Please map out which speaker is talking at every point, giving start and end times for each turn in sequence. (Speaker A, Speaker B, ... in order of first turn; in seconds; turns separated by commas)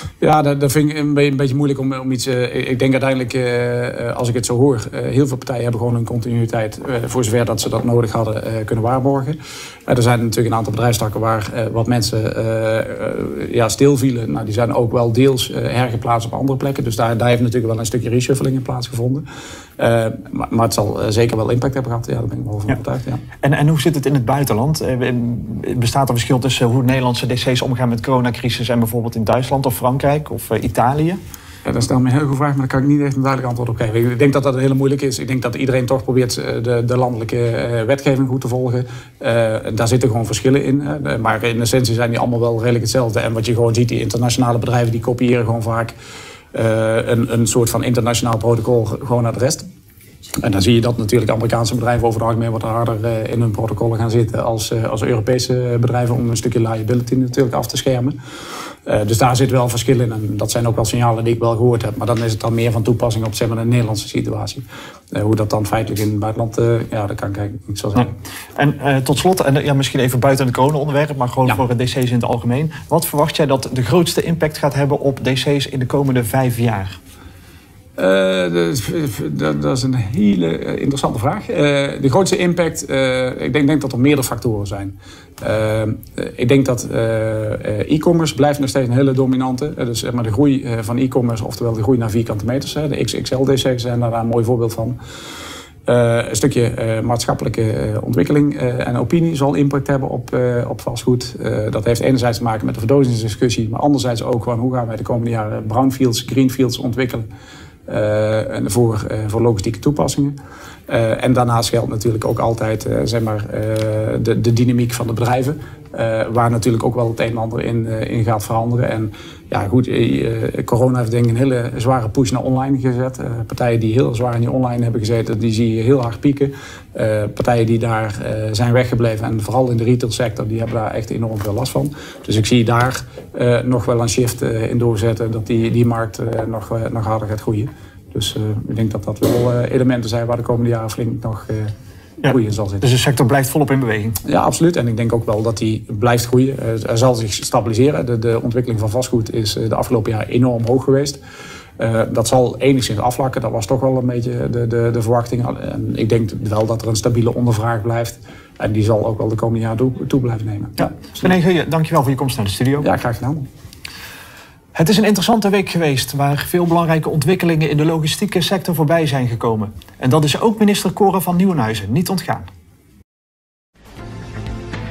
Speaker A: 0.2-19.3, Speaker A: 19.8-23.2, Speaker B: 23.4-31.2, Speaker A: 31.6-45.9, Speaker A: 46.5-49.6, Speaker A: 50.4-58.2, Speaker A: 58.9-68.1, Speaker B: 68.0-77.0, Speaker A: 78.0-95.0, Speaker A: 95.9-107.3, Speaker A: 107.9-110.4, Speaker A: 110.9-142.9, Speaker B: 142.2-144.2, Speaker A: 144.2-151.2, Speaker A: 151.8-161.3, Speaker B: 160.8-162.9, Speaker A: 162.8-163.5, Speaker B: 164.8-172.5